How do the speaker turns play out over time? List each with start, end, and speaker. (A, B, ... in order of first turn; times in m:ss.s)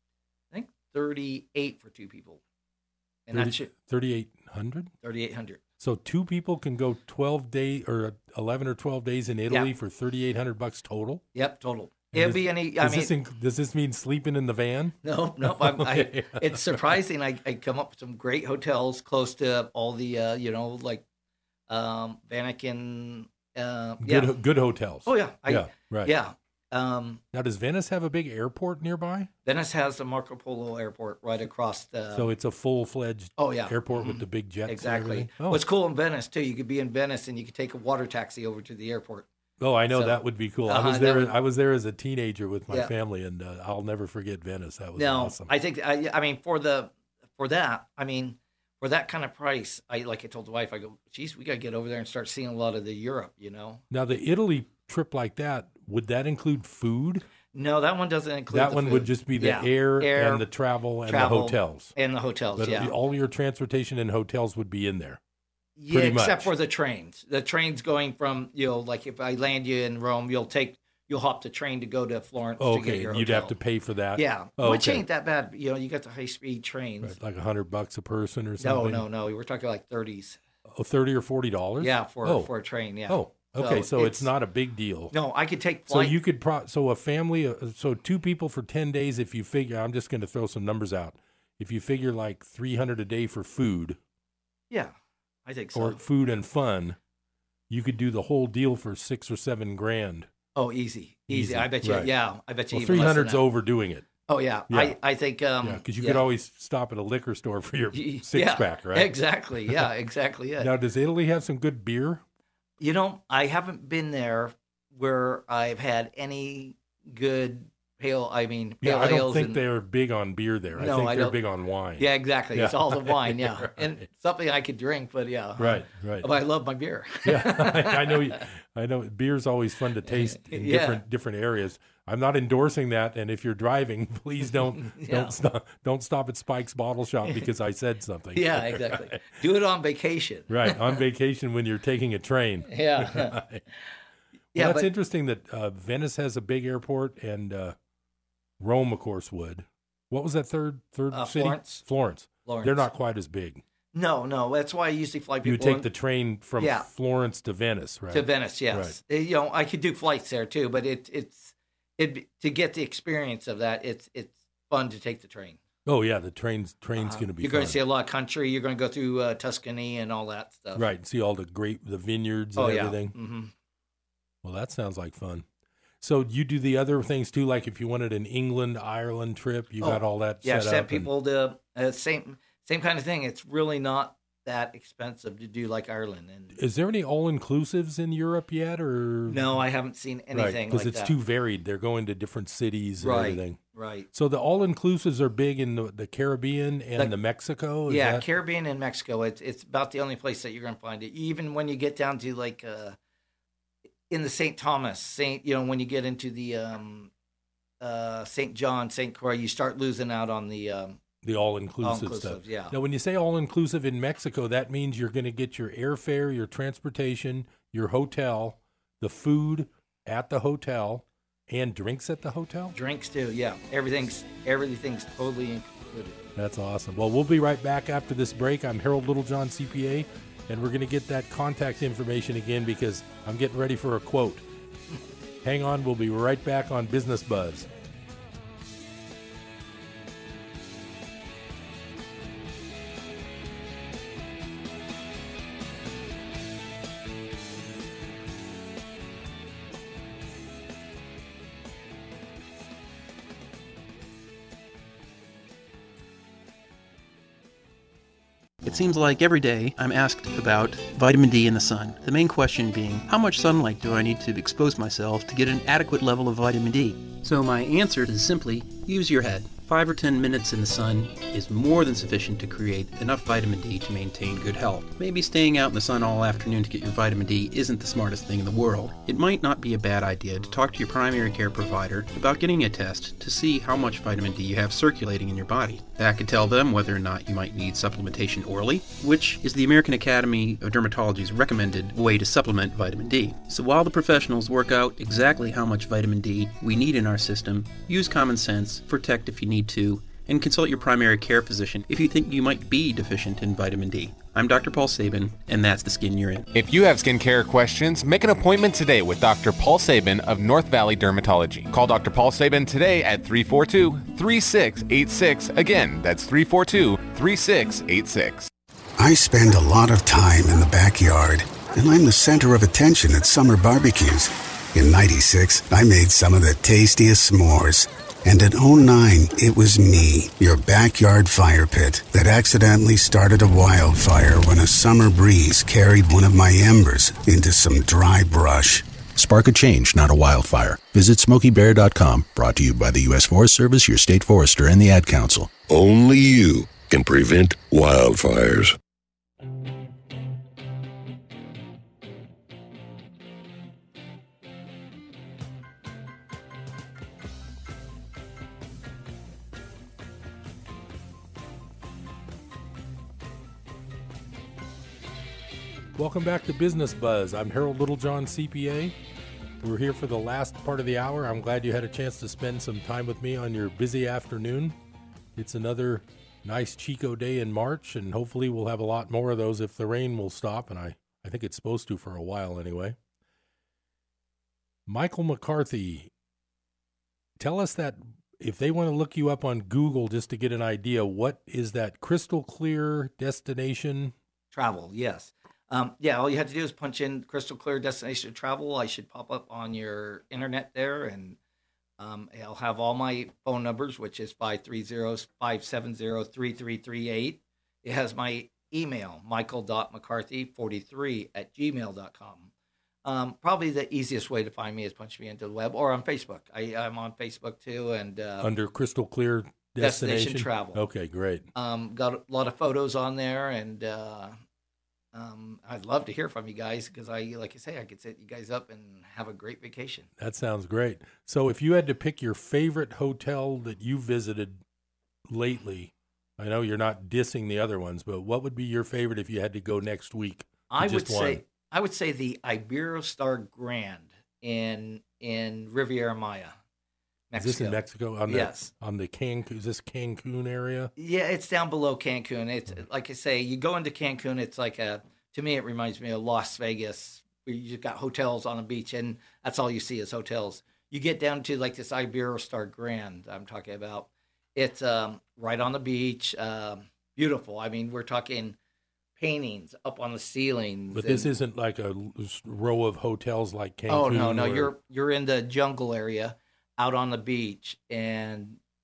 0:00.5-0:02.4 A
0:03.3-0:03.7 A
0:03.3-0:04.9 B
0:05.0-0:05.6 A
0:05.8-0:11.2 B
0:11.3-0:13.1 A
0:12.1-0:17.0 B
0:15.0-0:21.0 A
0:21.7-0:24.4 A
0:24.0-0:26.1 B
0:25.0-0:27.2 A
0:27.3-0:29.3 B
0:29.4-0:32.3 A
0:32.1-0:35.6 B
0:33.4-0:39.3 A
0:39.6-0:45.5 B
0:39.9-0:41.3 A
0:45.0-0:53.8 A
0:53.9-0:57.2 B
0:57.5-1:00.4 A
0:58.5-1:01.9 B
1:01.1-1:02.9 A
1:02.6-1:05.2 B
1:05.8-1:13.5 A
1:05.9-1:06.5 B
1:12.6-1:15.0 B
1:14.1-1:17.1 A
1:17.0-1:19.0 B
1:18.6-1:20.4 A
1:20.7-1:22.5 B
1:21.8-1:24.3 A
1:23.1-1:25.1 B
1:25.1-1:26.2 A
1:25.9-1:34.0 B
1:35.4-1:36.0 A
1:35.7-1:37.0 B
1:37.7-1:40.3 B
1:40.5-1:43.4 A
1:41.3-1:42.1 B
1:42.7-1:44.1 B
1:44.3-1:46.2 A
1:44.7-1:45.0 B
1:45.6-1:49.1 B
1:47.9-1:50.7 A
1:50.6-1:52.2 B
1:52.8-1:59.6 A
1:58.8-2:03.9 B
2:00.8-2:01.4 A
2:02.0-2:08.4 A
2:05.6-2:06.3 B
2:07.2-2:19.2 B
2:10.0-2:11.0 A
2:14.8-2:15.3 A
2:18.3-2:20.9 A
2:20.5-2:23.6 B
2:22.7-2:23.4 A
2:24.5-2:24.9 A
2:24.5-2:27.7 B
2:28.6-2:33.6 B
2:31.1-2:31.8 A
2:32.4-2:32.9 A
2:33.9-2:35.9 A
2:35.4-2:39.0 B
2:36.6-2:36.8 A
2:38.1-2:45.6 A
2:45.8-2:47.8 B
2:47.0-2:50.9 A
2:50.7-2:53.1 B
2:52.6-2:53.5 A
2:54.4-2:55.4 B
2:56.0-3:01.1 B
2:59.8-3:06.6 A
3:06.5-3:09.6 B
3:09.3-3:11.1 A
3:10.3-3:13.6 B
3:13.0-3:14.1 A
3:14.1-3:18.2 B
3:17.9-3:23.0 A
3:24.1-3:27.1 A
3:27.8-3:31.0 A
3:31.2-3:42.7 B
3:31.8-3:32.7 A
3:42.7-3:46.2 A
3:46.4-3:54.4 B
3:55.4-3:57.7 B
4:18.6-5:06.5 C
5:06.5-5:18.5 D
5:19.0-5:38.8 E
5:39.2-5:45.5 F
5:45.7-5:48.6 G
6:05.9-6:08.9 B
6:09.6-6:14.7 B
6:15.4-6:23.0 B
6:24.9-6:26.1 B
6:27.4-6:34.1 B
6:34.5-6:41.4 A
6:42.0-6:52.5 A
6:53.0-6:58.5 A
6:58.4-7:01.5 B
6:59.8-7:00.8 A
7:01.5-7:04.3 A
7:05.1-7:10.1 A
7:10.2-7:14.6 B
7:15.3-7:21.4 B
7:20.7-7:26.5 A
7:27.3-7:28.7 A
7:27.4-7:30.9 B
7:31.0-7:48.6 A
7:49.2-7:51.3 A
7:50.9-7:54.7 B
7:53.9-7:58.6 A